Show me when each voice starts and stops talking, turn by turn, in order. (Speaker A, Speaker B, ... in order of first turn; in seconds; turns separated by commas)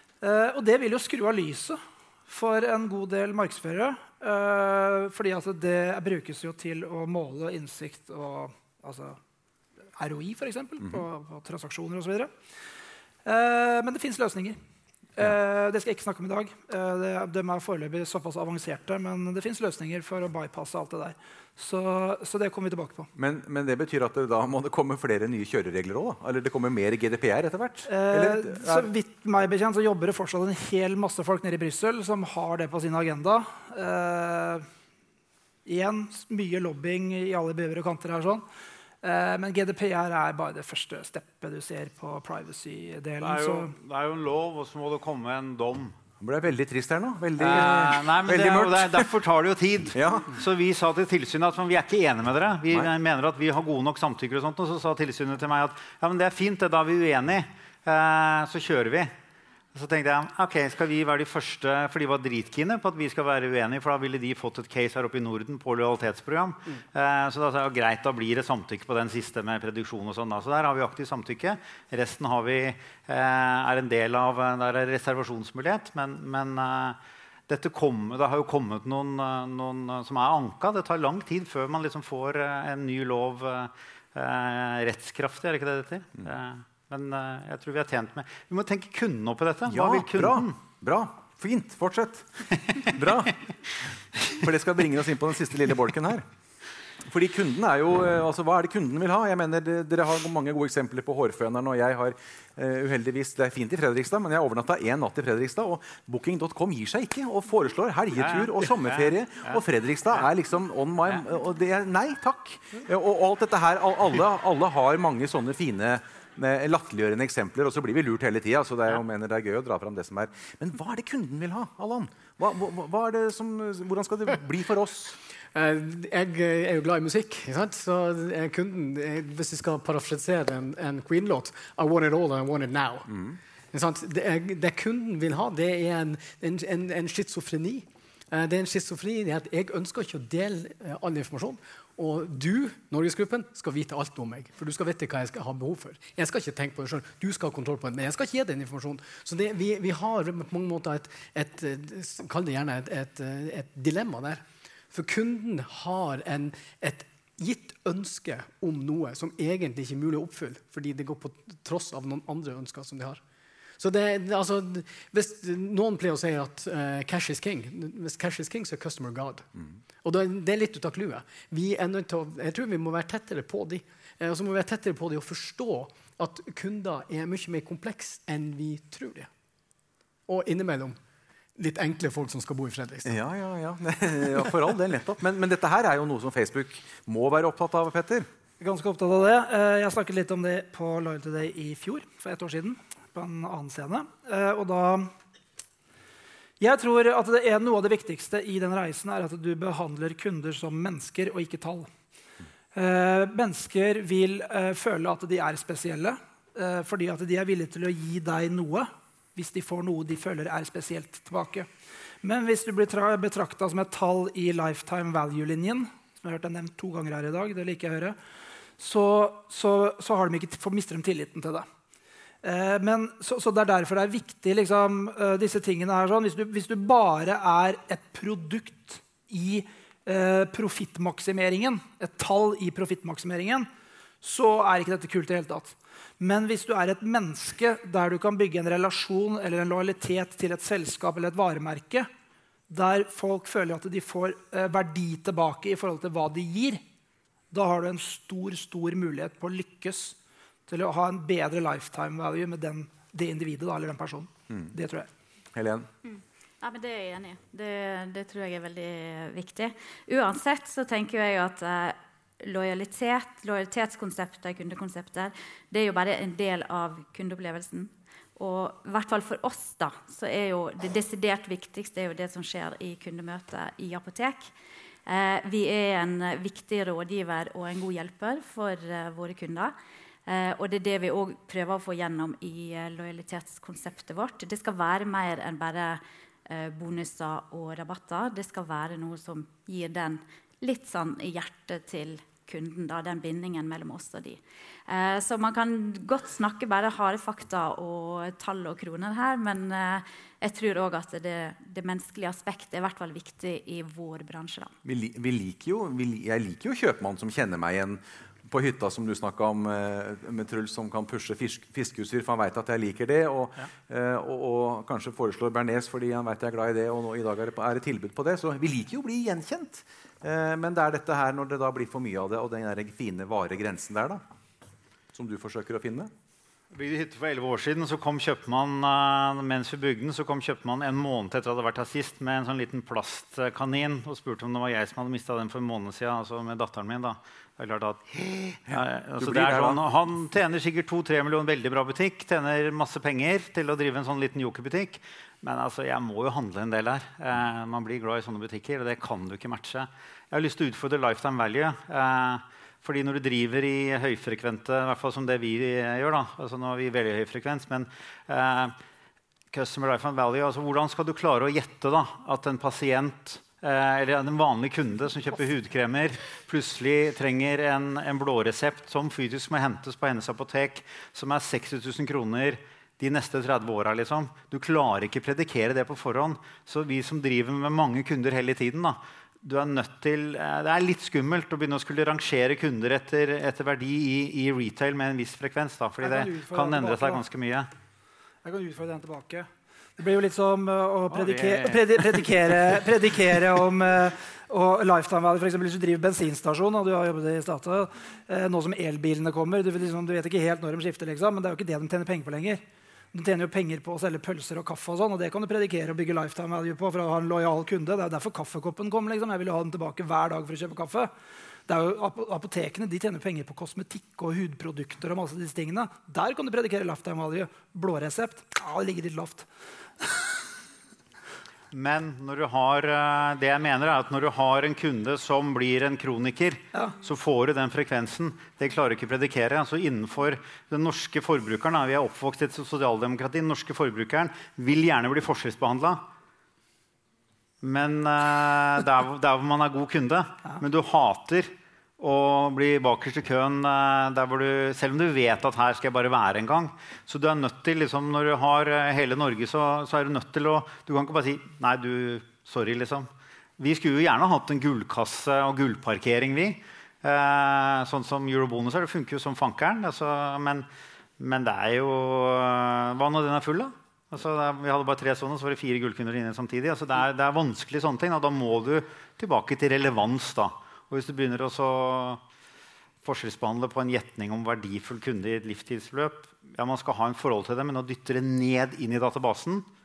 Speaker A: 0.2-9.2, Speaker A: 9.9-12.3, Speaker A: 13.2-14.6, Speaker A: 15.2-23.1, Speaker B: 23.1-28.9, Speaker A: 27.9-34.6, Speaker A: 35.6-38.4, Speaker A: 39.0-43.7, Speaker C: 43.2-46.0, Speaker B: 46.2-49.1, Speaker C: 47.4-59.1, Speaker B: 49.9-50.3, Speaker C: 59.7-90.6, Speaker B: 89.7-92.2, Speaker B: 92.8-93.3, Speaker B: 94.3-96.2, Speaker B: 97.0-125.2, Speaker C: 108.2-109.6, Speaker D: 125.5-133.2, Speaker B: 133.1-133.4, Speaker D: 133.7-163.2, Speaker D: 163.8-169.5, Speaker D: 170.0-179.3, Speaker D: 180.3-181.0, Speaker D: 181.5-183.2, Speaker B: 183.0-188.3, Speaker A: 188.6-195.1, Speaker A: 196.6-201.9, Speaker A: 202.7-211.7, Speaker A: 212.2-218.2, Speaker A: 218.8-221.7, Speaker A: 222.4-233.7, Speaker A: 234.2-242.1, Speaker A: 242.7-246.8, Speaker A: 247.5-250.2, Speaker A: 250.7-255.1, Speaker B: 255.5-255.9, Speaker E: 256.0-274.5, Speaker E: 275.1-279.7, Speaker E: 280.2-304.7, Speaker B: 304.8-324.2, Speaker B: 325.1-326.1, Speaker C: 326.7-358.7, Speaker B: 338.7-339.8, Speaker C: 359.5-387.7, Speaker A: 386.0-387.2, Speaker A: 388.4-402.6, Speaker C: 391.1-391.8, Speaker A: 403.1-411.1, Speaker A: 411.7-419.5, Speaker C: 421.7-436.0, Speaker C: 437.6-453.1, Speaker C: 453.6-460.6, Speaker C: 461.2-472.2, Speaker C: 473.0-479.7